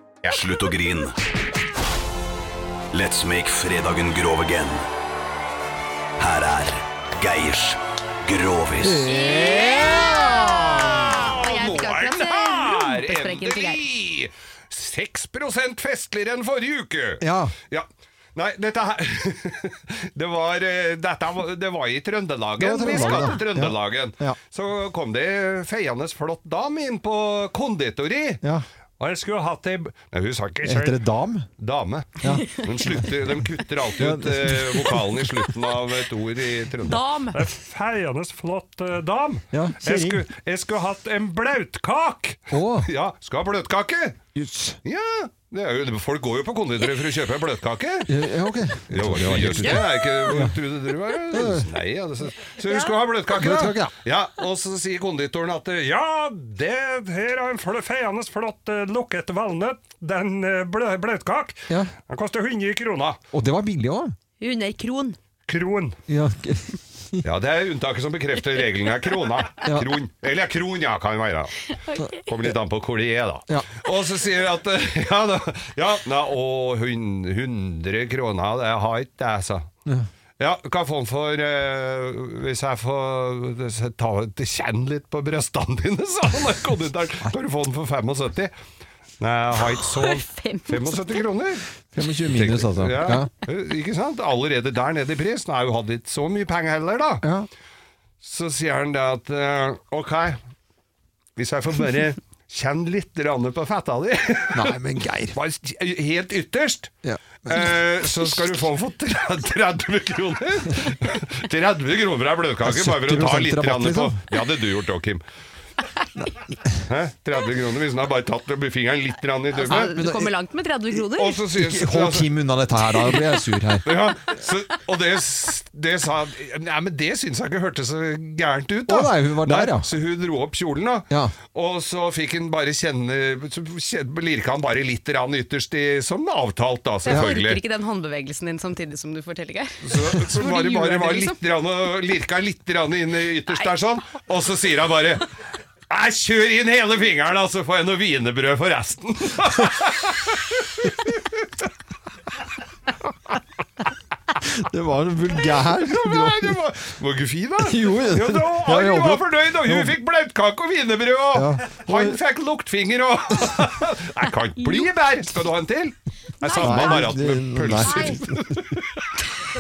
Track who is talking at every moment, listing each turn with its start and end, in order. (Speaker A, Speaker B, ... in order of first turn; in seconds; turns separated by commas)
Speaker A: 0.2-1.1, Speaker A: 2.9-4.8, Speaker A: 6.2-9.1, Speaker B: 8.8-10.8, Speaker C: 9.0-28.4, Speaker D: 9.2-13.8, Speaker B: 17.2-17.6, Speaker B: 22.6-24.4, Speaker D: 22.9-23.3, Speaker C: 29.0-31.0, Speaker B: 30.6-31.5, Speaker C: 31.6-44.2, Speaker B: 32.2-33.1, Speaker D: 32.3-32.6, Speaker B: 34.0-35.2, Speaker D: 36.8-37.5, Speaker B: 39.5-40.2, Speaker B: 42.5-42.9, Speaker B: 44.4-44.8, Speaker C: 44.8-48.1, Speaker B: 48.1-50.6, Speaker C: 48.9-63.2, Speaker B: 51.3-51.7, Speaker B: 53.3-53.9, Speaker B: 63.3-64.1, Speaker D: 64.4-65.2, Speaker C: 65.5-66.0, Speaker B: 66.1-67.2, Speaker C: 67.2-79.7, Speaker B: 69.6-69.9, Speaker D: 71.8-72.2, Speaker C: 80.4-88.5, Speaker C: 89.2-91.7, Speaker D: 89.7-91.2, Speaker B: 91.9-93.3, Speaker C: 92.2-97.2, Speaker B: 97.2-97.5, Speaker C: 98.2-100.4, Speaker C: 101.3-104.8, Speaker B: 104.5-105.3, Speaker C: 105.3-106.9, Speaker B: 107.0-107.7, Speaker C: 107.4-115.2, Speaker B: 112.6-114.2, Speaker B: 116.2-116.5, Speaker C: 116.8-120.0, Speaker D: 119.5-121.4, Speaker B: 119.7-120.3, Speaker C: 121.1-123.2, Speaker B: 121.5-123.9, Speaker C: 123.8-137.6, Speaker B: 128.9-129.9, Speaker B: 131.1-131.3, Speaker D: 137.0-141.4, Speaker C: 139.8-145.3, Speaker C: 145.9-151.4, Speaker B: 154.4-156.6, Speaker C: 155.4-169.0, Speaker B: 157.6-160.0, Speaker B: 161.3-162.2, Speaker D: 164.6-164.9, Speaker D: 166.4-167.1, Speaker B: 166.6-168.8, Speaker D: 167.8-168.2